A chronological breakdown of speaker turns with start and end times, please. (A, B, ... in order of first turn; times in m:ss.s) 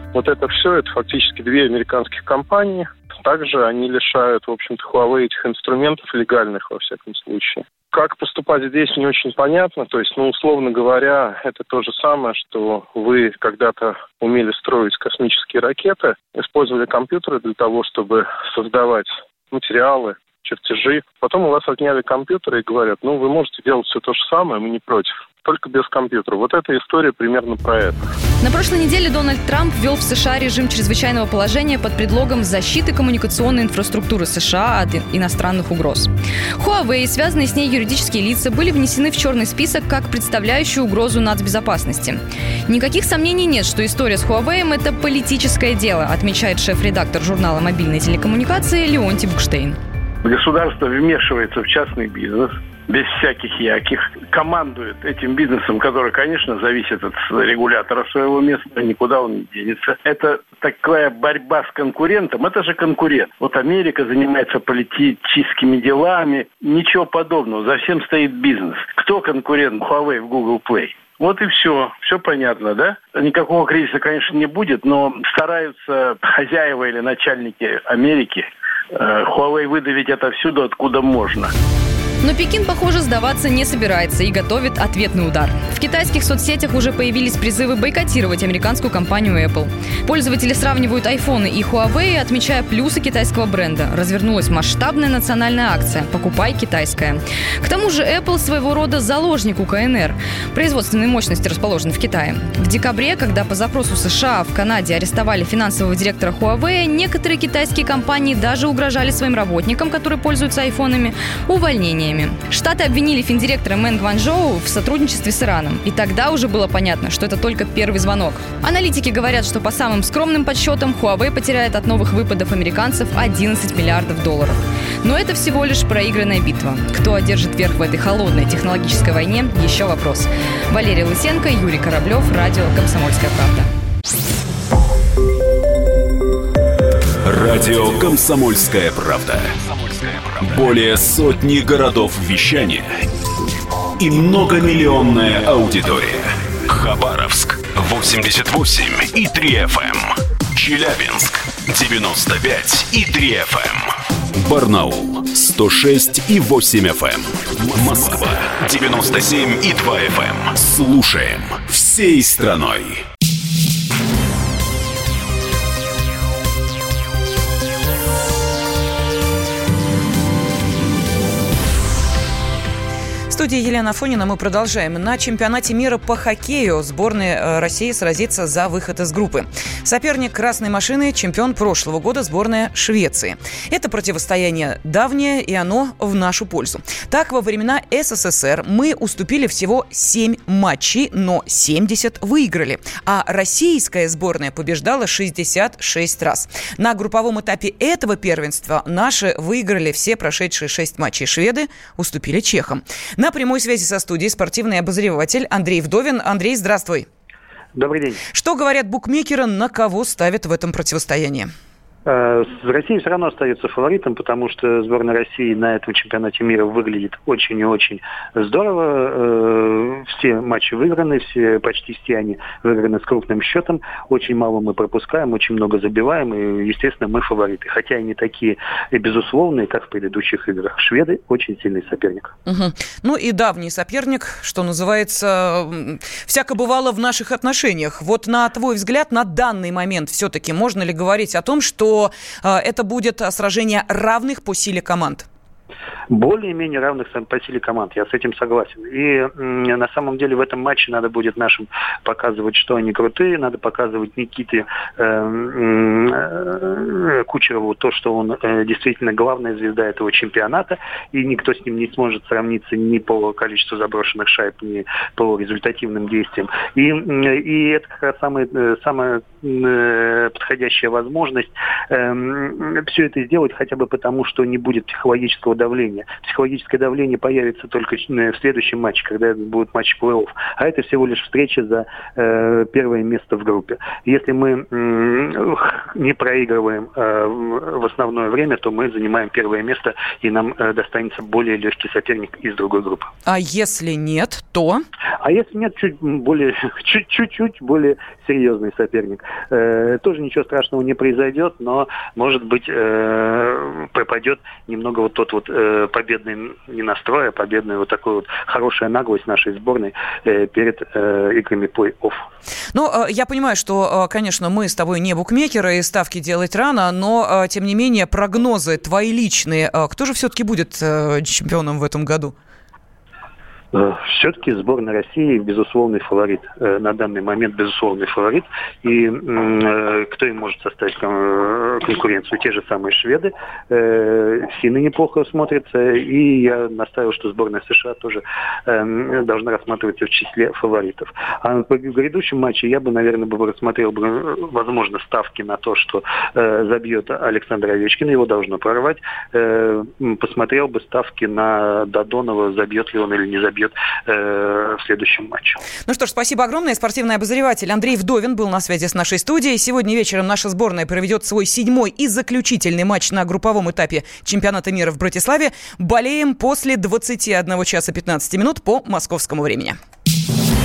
0:00.1-0:28.0 A
0:28.4-0:49.8 B
0:50.2-1:21.5 C
1:22.2-2:13.7 B
2:17.2-2:23.0 D
2:24.0-2:43.0 D
2:53.3-3:27.1 E
3:27.7-3:28.2 F
3:28.3-3:31.5 E
3:32.1-3:52.3 F
3:52.5-4:05.2 E
4:06.1-4:53.1 F
4:53.3-4:54.8 E
4:55.2-5:12.2 F
5:12.7-5:22.3 E
5:23.7-5:55.6 F
5:55.9-6:09.8 E